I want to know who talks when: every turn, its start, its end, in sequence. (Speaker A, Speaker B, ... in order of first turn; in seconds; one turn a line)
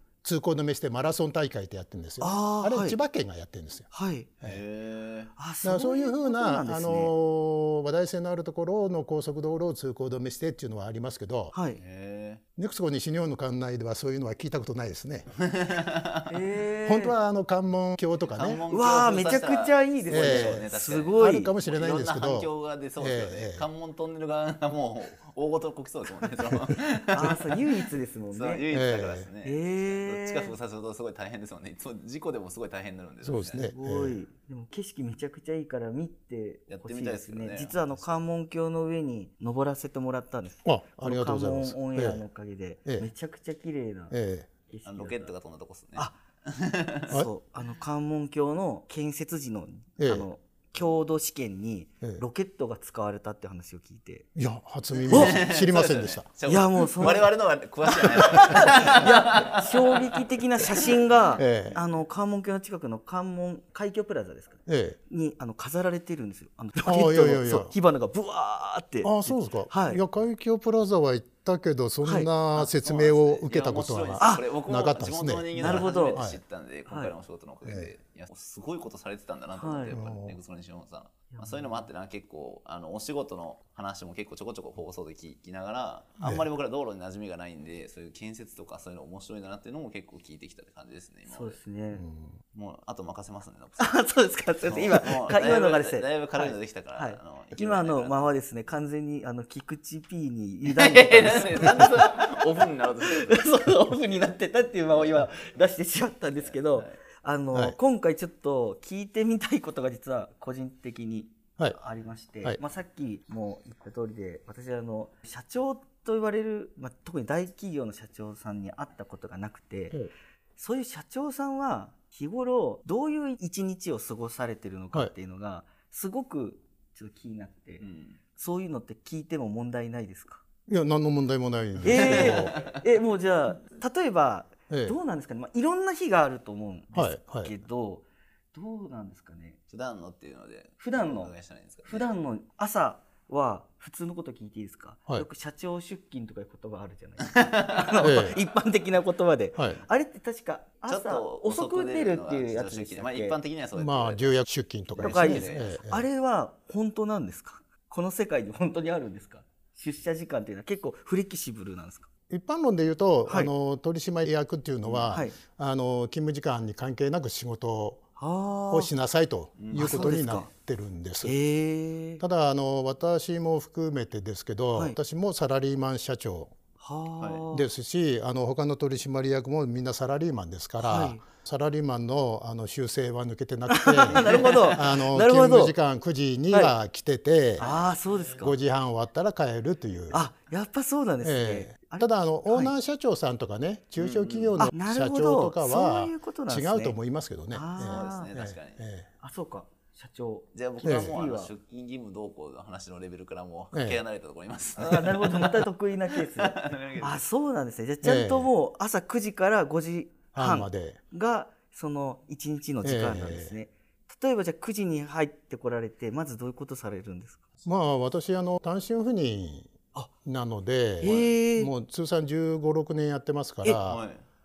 Speaker A: 0.2-3.9
Speaker B: 2.2-3.0
Speaker B: 3.9-4.3
Speaker C: 4.4-5.3
Speaker B: 5.4-7.1
Speaker A: 5.6-11.5
Speaker B: 11.5-11.8
Speaker C: 11.8-12.4
Speaker A: 12.6-15.3
Speaker C: 15.3-16.3
Speaker B: 16.3-17.1
Speaker A: 16.8-18.6
Speaker C: 18.3-27.7
Speaker B: 18.7-21.5
Speaker A: 20.1-20.6
Speaker A: 21.2-23.6
Speaker B: 27.1-28.6
Speaker C: 28.3-33.7
Speaker A: 28.7-29.3
Speaker B: 29.4-30.5
Speaker A: 33.2-34.2
Speaker B: 33.7-44.1
Speaker C: 36.7-38.2
Speaker A: 40.6-42.2
Speaker A: 44.1-44.5
Speaker B: 44.7-45.3
Speaker C: 44.8-47.1
Speaker B: 47.1-54.3
Speaker A: 50.0-50.3
Speaker A: 54.3-56.2
Speaker C: 54.9-61.0
Speaker B: 55.1-55.4
Speaker B: 56.4-57.3
Speaker B: 57.9-70.0
Speaker A: 61.4-61.8
Speaker C: 61.5-61.9
Speaker A: 64.7-65.0
Speaker A: 66.8-67.7
Speaker A: 69.0-76.4
Speaker B: 72.0-72.3
Speaker C: 72.5-91.6
Speaker B: 74.2-74.5
Speaker B: 75.5-76.2
Speaker B: 76.9-77.1
Speaker A: 77.6-77.9
Speaker B: 79.6-80.0
Speaker A: 79.9-80.3
Speaker B: 81.3-81.8
Speaker B: 91.2-92.0
Speaker A: 92.0-92.3
Speaker C: 92.5-94.0
Speaker B: 93.8-120.0
Speaker C: 94.6-98.3
Speaker C: 100.7-103.6
Speaker C: 106.4-107.0
Speaker B: 120.6-127.8
Speaker C: 127.8-128.2
Speaker B: 128.3-130.4
Speaker A: 130.7-132.5
Speaker C: 131.8-132.8
Speaker B: 131.8-139.6
Speaker A: 134.7-134.9
Speaker A: 136.9-137.5
Speaker C: 139.7-142.1
Speaker B: 140.8-141.3
Speaker B: 141.9-153.4
Speaker C: 147.2-148.1
Speaker A: 148.0-148.4
Speaker C: 150.9-154.4
Speaker A: 153.8-156.0
Speaker C: 154.9-155.8
Speaker B: 155.0-162.1
Speaker A: 162.3-168.1
Speaker C: 164.8-165.2
Speaker B: 165.1-165.3
Speaker B: 168.2-168.9
Speaker A: 168.7-171.3
Speaker C: 169.6-170.2
Speaker B: 169.7-170.5
Speaker B: 171.2-172.2
Speaker A: 172.2-176.5
Speaker B: 176.8-177.7
Speaker C: 177.2-177.4
Speaker A: 177.5-187.7
Speaker B: 180.8-181.2
Speaker B: 183.7-185.7
Speaker C: 184.1-184.8
Speaker B: 187.6-188.6
Speaker C: 187.6-188.3
Speaker A: 188.4-190.3
Speaker B: 190.1-192.7
Speaker A: 191.2-199.1
Speaker C: 194.0-194.6
Speaker B: 194.6-196.9
Speaker B: 197.5-198.3
Speaker C: 197.9-198.8
Speaker B: 199.2-201.5
Speaker C: 200.5-207.2
Speaker A: 200.8-201.2
Speaker A: 203.7-204.0
Speaker B: 204.8-217.4
Speaker A: 208.0-208.5
Speaker A: 210.3-211.0
Speaker A: 212.8-213.5
Speaker A: 217.6-219.7
Speaker A: 220.2-224.0
Speaker B: 221.0-221.7
Speaker C: 223.8-224.2